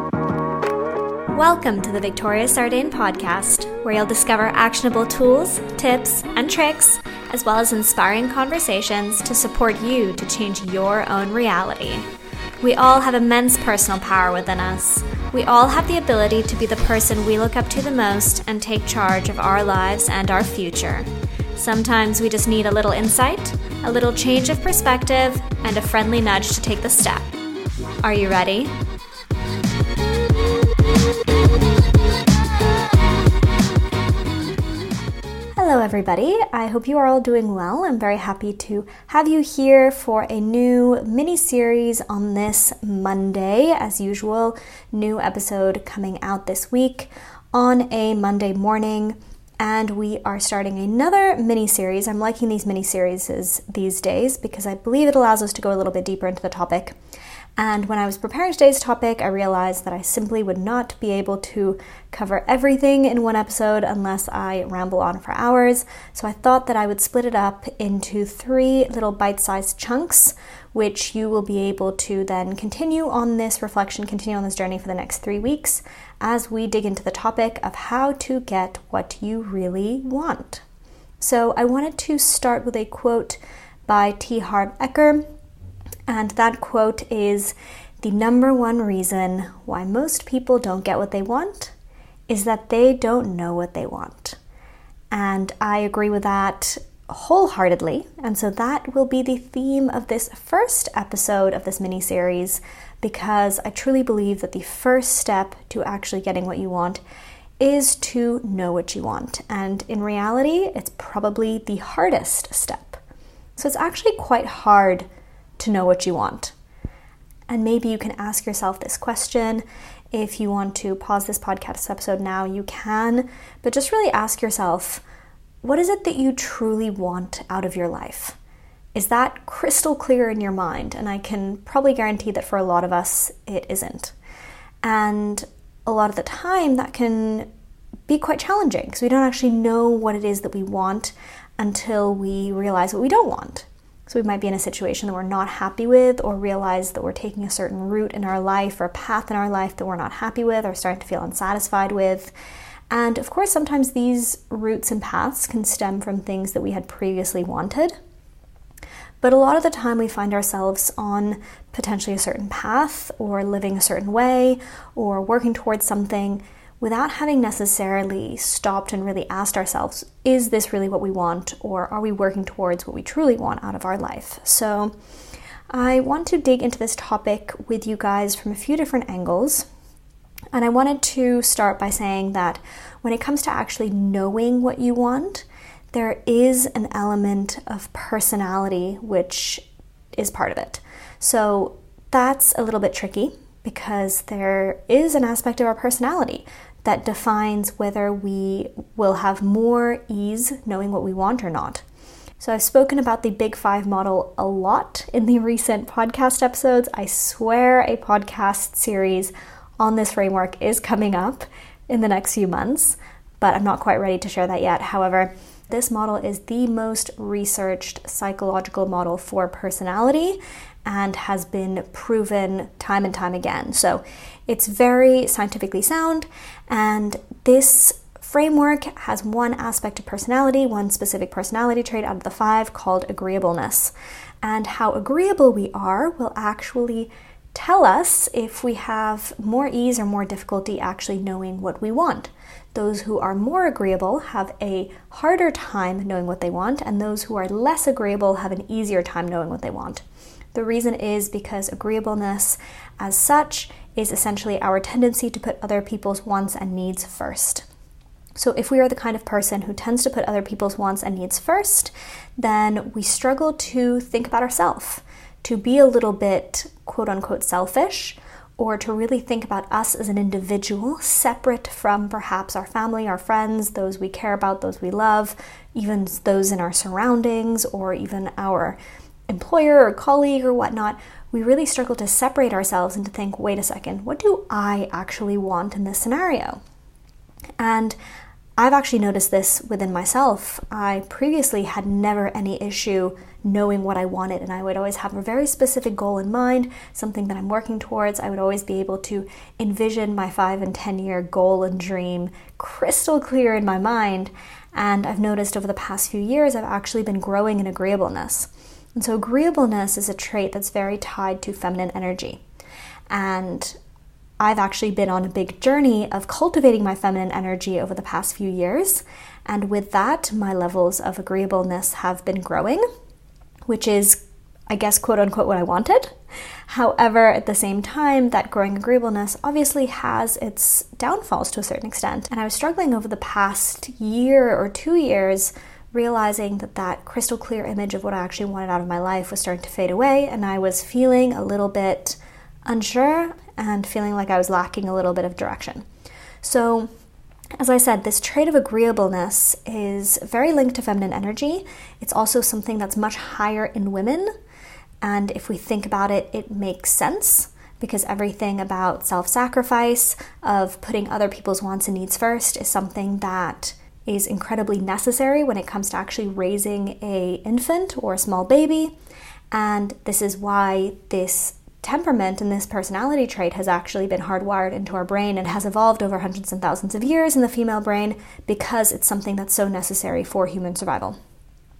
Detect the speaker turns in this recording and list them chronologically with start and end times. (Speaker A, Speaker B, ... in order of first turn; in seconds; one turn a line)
Speaker A: 1.3-12.1
Speaker A: 12.6-27.3
Speaker A: 28.0-28.7
Speaker A: 35.6-57.0
Speaker A: 57.6-80.6
Speaker A: 81.2-85.2
Speaker A: 86.1-91.7
Speaker A: 92.3-94.4
Speaker A: 95.1-107.0
Speaker A: 107.6-113.0
Speaker A: 113.6-115.0
Speaker A: 115.6-116.5
Speaker A: 117.5-125.0
Speaker A: 125.6-128.4
Speaker A: 128.9-134.1
Speaker A: 134.8-137.5
Speaker A: 138.1-152.3
Speaker A: 152.9-157.9
Speaker A: 159.2-174.9
Speaker A: 175.7-179.7
Speaker A: 180.5-201.8
Speaker A: 202.4-257.6
Speaker A: 258.4-278.8
Speaker A: 279.3-286.6
Speaker A: 287.6-287.9
Speaker A: 288.6-312.4
Speaker A: 313.1-313.8
Speaker A: 314.4-322.8
Speaker A: 323.6-326.1
Speaker A: 326.7-345.8
Speaker A: 346.4-346.9
Speaker A: 347.6-354.3
Speaker A: 355.0-368.9
Speaker A: 369.5-381.2